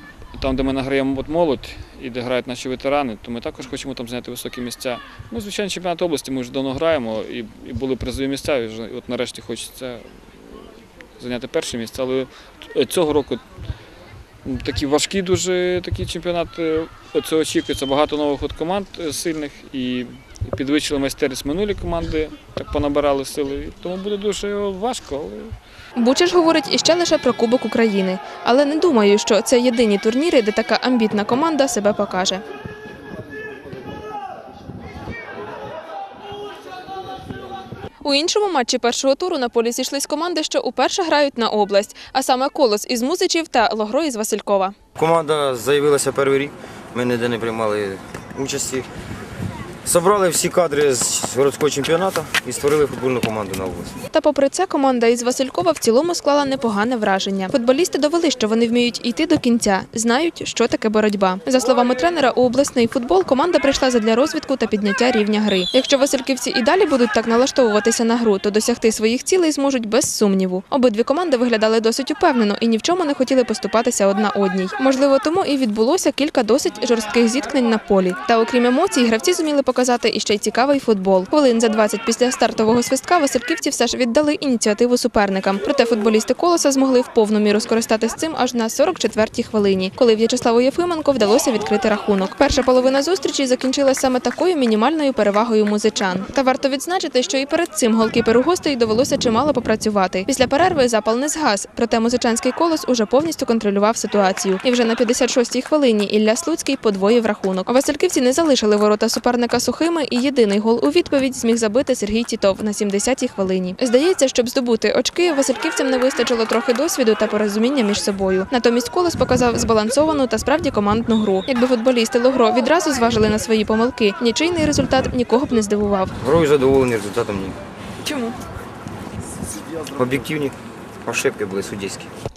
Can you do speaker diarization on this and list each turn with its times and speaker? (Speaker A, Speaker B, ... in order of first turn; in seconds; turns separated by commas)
Speaker A: 0.3-13.4, Speaker A: 14.4-25.6, Speaker B: 25.9-32.4, Speaker B: 38.0-44.8, Speaker C: 45.0-48.9, Speaker C: 49.8-54.0, Speaker B: 54.1-126.1, Speaker C: 126.2-127.6, Speaker B: 128.0-128.4, Speaker C: 129.9-132.1